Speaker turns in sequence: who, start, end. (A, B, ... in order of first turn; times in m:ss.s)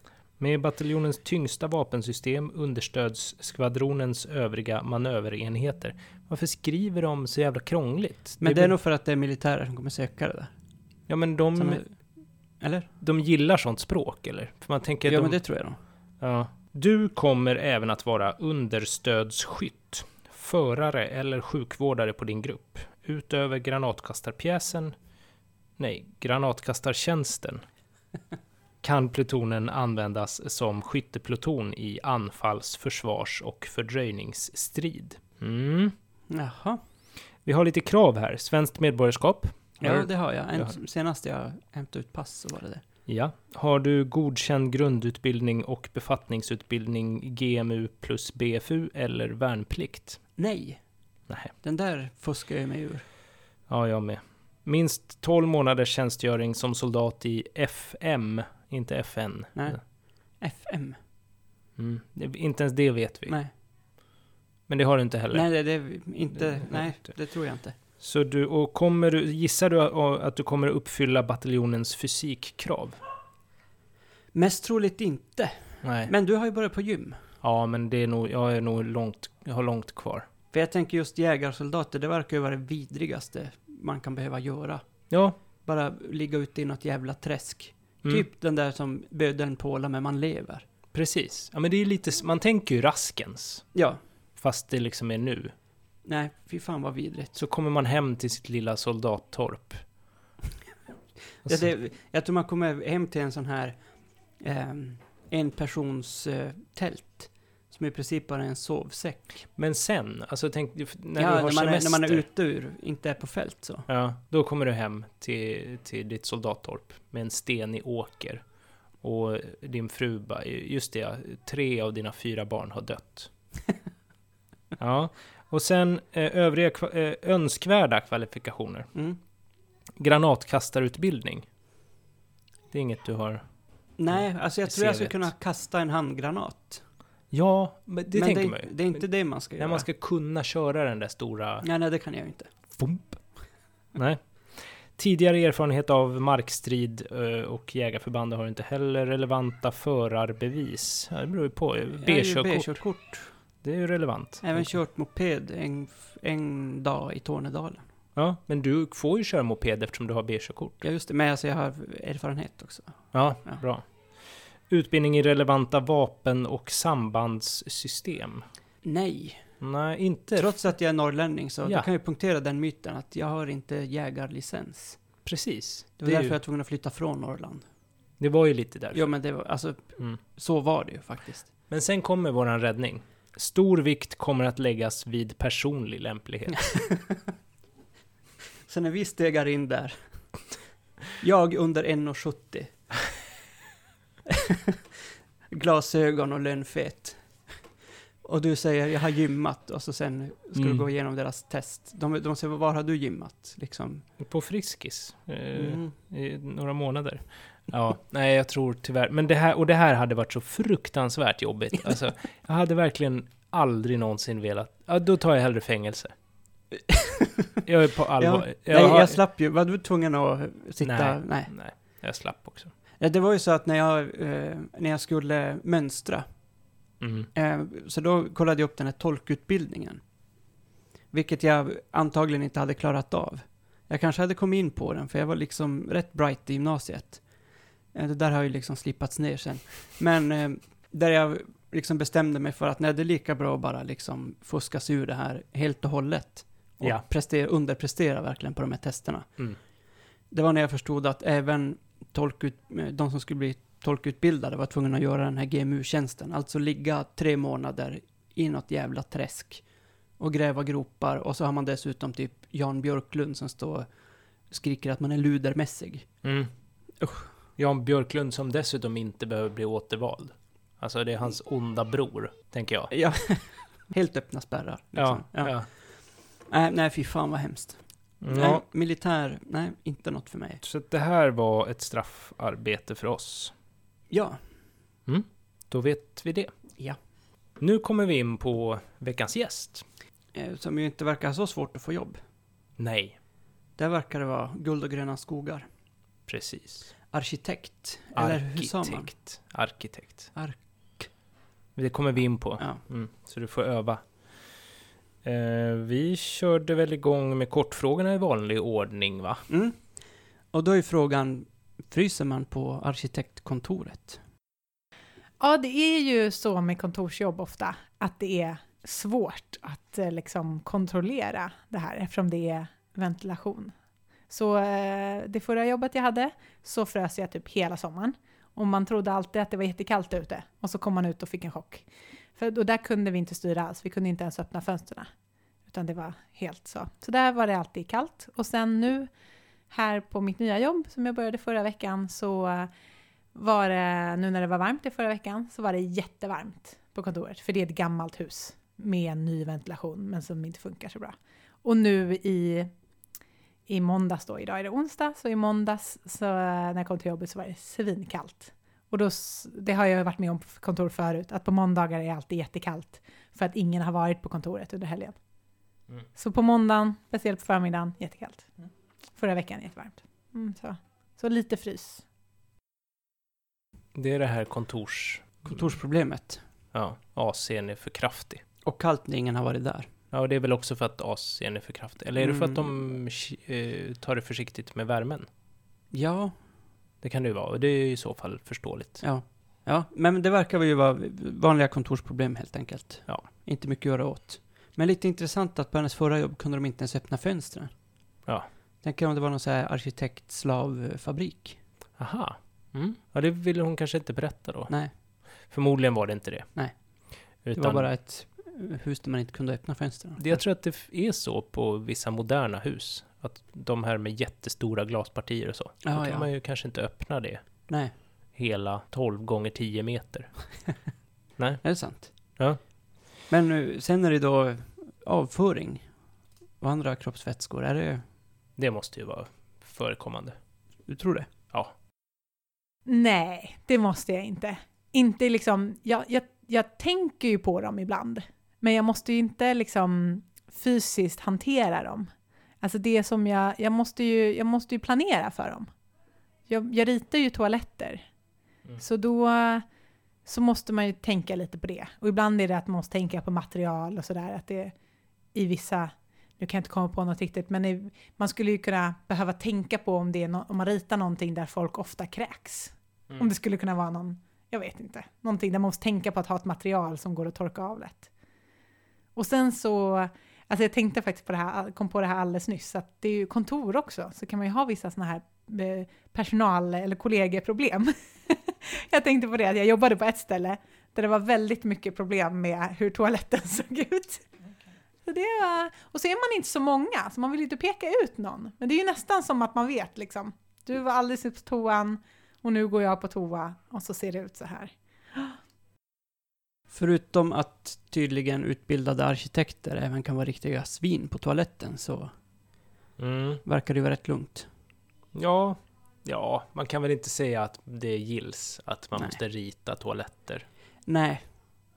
0:00.4-0:08.7 A
0:08.4-0:10.5 B
0:11.1-0:11.8 A
0:11.6-0:11.9 B
0:12.6-0:12.9 B
0:13.0-0:15.4 A
0:15.0-0:15.8 B
0:16.2-0:24.9 A
0:25.8-0:27.6 A
0:28.8-0:35.9 A
0:36.3-0:36.8 B
0:37.4-0:40.7 A
0:39.8-0:42.8 B
0:43.1-0:50.2 A
0:50.4-0:50.8 B
0:51.6-0:53.0 B
0:53.7-0:59.8 A
0:59.5-0:59.8 B
1:00.4-1:01.0 B
1:01.8-1:03.4 A
1:04.7-1:05.5 A
1:05.3-1:07.8 B
1:06.6-1:06.9 A
1:08.0-1:13.0 A
1:14.3-1:17.2 B
1:15.8-1:16.1 A
1:17.4-1:20.3 A
1:20.5-1:24.8 B
1:25.1-1:25.4 A
1:25.6-1:30.6 B
1:30.9-1:33.6 A
1:33.7-1:34.0 B
1:34.4-1:35.5 A
1:36.0-1:37.4 B
1:37.3-1:39.8 A
1:41.4-1:43.8 B
1:44.4-1:49.4 B
1:49.6-1:52.2 A
1:51.2-1:53.9 B
1:53.9-1:58.4 A
1:59.0-2:03.3 A
2:04.8-2:08.9 A
2:08.9-2:09.2 B
2:10.0-2:11.5 A
2:12.7-2:13.4 A
2:14.0-2:16.8 B
2:14.1-2:15.3 A
2:17.3-2:19.0 A
2:18.1-2:19.9 B
2:19.6-2:21.6 A
2:21.6-2:22.5 B
2:22.8-2:23.2 A
2:23.9-2:32.8 A
2:31.9-2:33.3 B
2:33.6-2:34.7 A
2:34.4-2:37.8 B
2:38.2-2:40.8 A
2:40.8-2:43.6 B
2:43.1-2:43.8 A
2:44.7-2:48.4 A
2:48.8-2:49.4 B
2:49.6-2:50.6 A
2:50.3-2:55.0 B
2:55.2-2:56.4 A
2:56.0-2:57.6 B
2:58.2-2:59.1 A
2:58.9-3:01.5 B
3:01.7-3:06.8 A
3:06.7-3:07.2 B
3:08.6-3:10.0 B
3:11.2-3:12.8 B
3:14.3-3:15.0 B
3:15.5-3:17.2 B
3:18.2-3:24.0 B
3:20.5-3:20.8 A
3:24.2-3:36.1 A
3:25.5-3:25.9 B
3:36.7-3:37.6 B
3:37.6-3:39.2 A
3:38.2-3:41.5 B
3:40.8-3:42.7 A
3:43.0-3:46.2 B
3:47.0-3:47.3 A
3:47.3-3:50.0 B
3:51.1-3:57.2 B
3:57.9-4:09.4 B
4:10.3-4:19.6 B
4:20.2-4:23.9 B
4:24.5-4:26.1 B
4:26.2-4:26.5 A
4:27.0-4:27.3 B
4:27.6-4:32.9 A
4:32.9-4:40.6 B
4:34.9-4:35.7 A
4:38.2-4:38.6 A
4:40.6-4:43.5 A
4:44.1-4:44.4 B
4:45.0-4:46.5 A
4:47.6-4:49.8 A
4:50.3-4:52.2 B
4:52.8-4:53.2 A
4:53.8-4:55.6 B
4:56.3-4:56.9 A
4:57.1-4:59.1 B
4:58.1-5:00.3 A
5:00.3-5:01.1 B
5:01.8-5:04.0 A
5:05.2-5:09.4 A
5:09.5-5:09.8 B
5:10.5-5:14.2 B
5:15.4-5:23.7 C
5:24.3-5:35.1 C
5:35.7-5:39.1 C
5:39.7-5:42.7 C
5:43.3-5:52.7 C
5:53.7-6:05.2 C
6:06.2-6:08.5 C
6:09.2-6:12.0 C
6:13.9-6:15.6 A
6:15.4-6:16.4 B
6:16.7-6:18.4 A
6:18.6-6:19.9 B
6:20.1-6:25.3 A
6:22.2-6:22.7 B
6:25.9-6:26.4 B
6:27.0-6:29.0 A
6:29.0-6:37.7 B
6:38.8-6:41.6 B
6:42.0-6:44.7 A
6:45.5-6:46.5 A
6:47.4-6:47.9 A
6:47.5-6:50.4 B
6:50.2-6:57.5 A
6:55.8-6:56.3 B
6:57.7-6:57.9 B
6:58.3-7:00.4 A
7:01.4-7:01.6 A
7:01.6-7:02.1 B
7:03.3-7:05.9 B
7:06.6-7:08.0 B
7:08.6-7:10.4 A
7:10.9-7:11.3 B
7:12.8-7:22.1 C
7:22.6-7:25.7 C
7:26.5-7:28.0 C
7:28.8-7:29.6 C
7:30.2-7:34.7 C
7:35.3-7:48.1 C
7:49.2-8:04.3 C
8:05.0-8:15.4 C
8:16.7-8:22.1 B
8:23.0-8:23.4 A
8:23.4-8:24.5 B
8:25.1-8:30.4 A
8:30.9-8:31.2 B